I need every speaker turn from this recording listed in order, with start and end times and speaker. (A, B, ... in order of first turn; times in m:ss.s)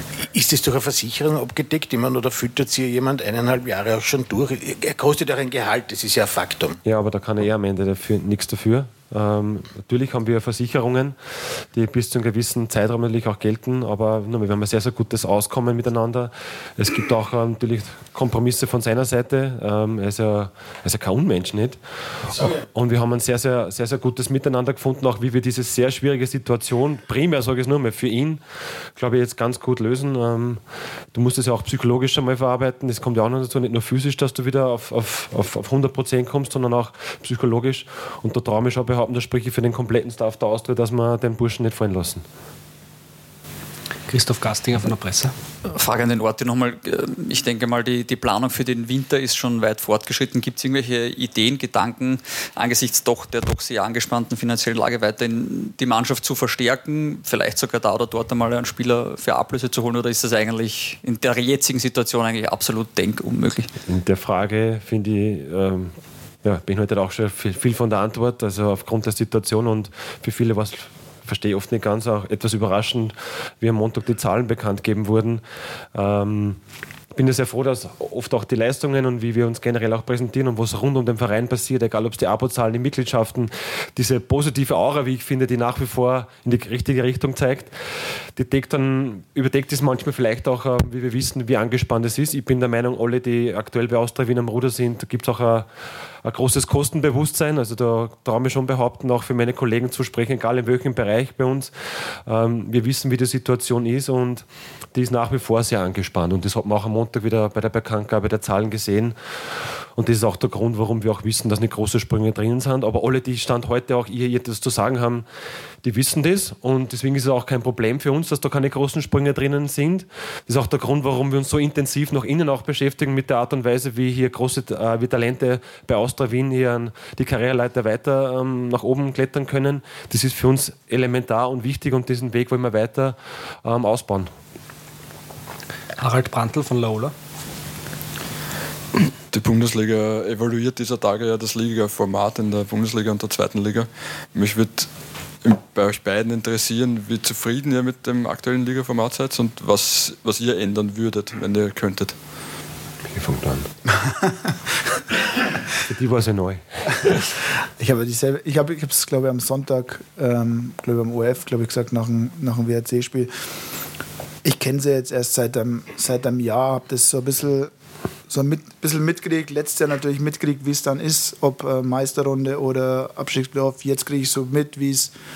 0:00.3-0:06.8 A
0:06.8-0:11.2 B
0:11.7-0:21.8 B
0:22.3-0:28.4 B
0:29.0-0:30.6 B
0:31.1-0:42.2 B
0:44.1-0:45.3 C
0:45.7-1:03.7 D
1:03.9-1:05.9 B
1:06.4-1:15.4 B
1:15.9-1:16.6 B
1:17.1-1:27.8 B
1:28.4-1:35.7 B
1:36.2-1:41.7 B
1:42.3-1:49.2 B
1:50.0-1:55.2 B
1:55.8-2:14.3 B
2:16.0-2:17.1 C
2:19.3-2:24.9 E
2:25.4-2:32.1 E
2:33.1-2:33.7 B
2:35.9-2:37.2 B
2:37.8-2:43.3 F
2:44.4-2:47.7 F
2:48.3-2:55.1 F